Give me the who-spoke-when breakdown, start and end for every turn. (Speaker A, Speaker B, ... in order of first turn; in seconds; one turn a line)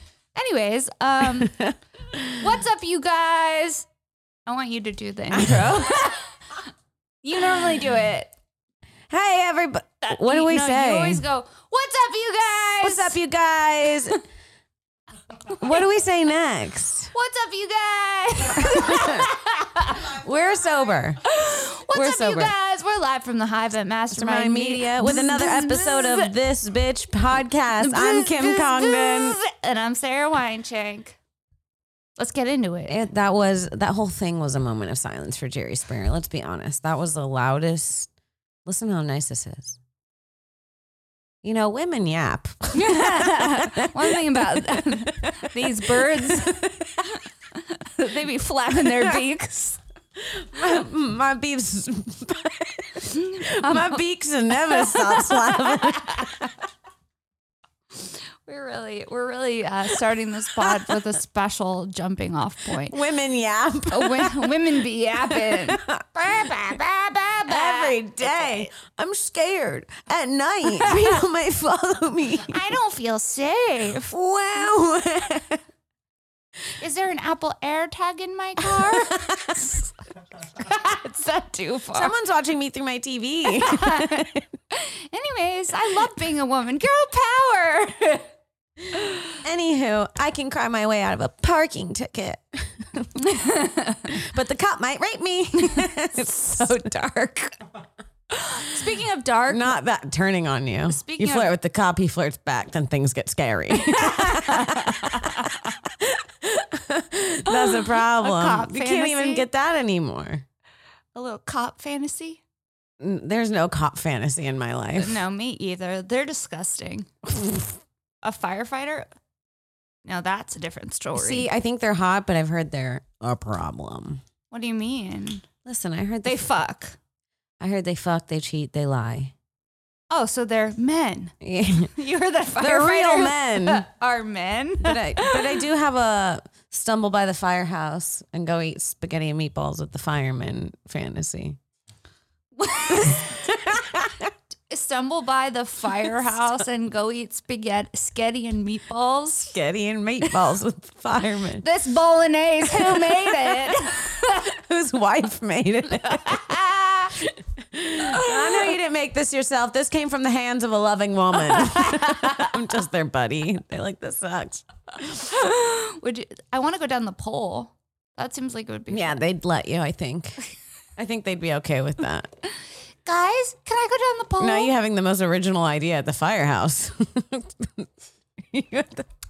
Speaker A: 0.3-1.6
Speaker B: 1.2-2.5
Speaker A: 2.4-3.9
Speaker A: 4.5-6.3
Speaker B: 5.3-6.2
Speaker A: 7.2-8.3
Speaker B: 9.1-11.2
Speaker A: 10.0-13.2
Speaker B: 12.8-14.2
Speaker B: 15.6-17.1
Speaker A: 17.1-20.1
Speaker B: 18.6-19.3
Speaker B: 20.0-21.2
Speaker A: 21.2-26.4
Speaker B: 21.9-22.5
Speaker B: 24.1-29.4
Speaker A: 27.8-31.2
Speaker A: 32.2-33.0
Speaker B: 32.9-38.1
Speaker B: 38.6-39.8
Speaker B: 41.4-47.1
Speaker A: 42.7-49.8
Speaker B: 48.8-49.2
Speaker B: 50.2-56.5
Speaker A: 53.0-56.5
Speaker A: 58.0-63.0
Speaker B: 60.6-60.9
Speaker B: 62.7-72.6
Speaker A: 63.9-65.8
Speaker A: 67.4-68.7
Speaker A: 70.7-71.1
Speaker A: 72.5-74.1
Speaker B: 74.1-75.6
Speaker A: 76.8-79.9
Speaker B: 78.6-79.7
Speaker A: 80.6-82.1
Speaker B: 81.9-84.5
Speaker A: 83.6-88.3
Speaker B: 89.4-93.1
Speaker A: 93.2-94.2
Speaker B: 94.1-97.6
Speaker A: 95.7-96.5
Speaker A: 98.3-99.8
Speaker B: 99.5-110.5
Speaker A: 100.9-101.5
Speaker A: 103.8-105.6
Speaker A: 107.5-109.5
Speaker A: 111.1-112.4
Speaker B: 113.0-115.2
Speaker A: 115.0-117.1
Speaker A: 118.2-119.1
Speaker A: 120.0-121.5
Speaker B: 121.1-124.2
Speaker A: 124.5-125.5
Speaker B: 125.7-126.5
Speaker A: 126.2-127.0
Speaker B: 127.6-129.3
Speaker A: 130.1-131.3
Speaker B: 131.4-131.9
Speaker A: 131.9-135.6
Speaker B: 132.6-133.9
Speaker B: 134.8-141.6
Speaker A: 142.6-143.6
Speaker B: 143.1-144.3
Speaker A: 144.7-149.6
Speaker B: 149.5-151.7
Speaker A: 151.6-154.4
Speaker B: 152.7-156.6
Speaker A: 156.0-157.2
Speaker B: 157.5-165.2
Speaker A: 158.0-158.8
Speaker A: 161.5-162.5
Speaker A: 165.1-169.2
Speaker B: 168.9-170.4
Speaker B: 171.0-172.3
Speaker A: 173.1-174.7
Speaker B: 174.4-179.1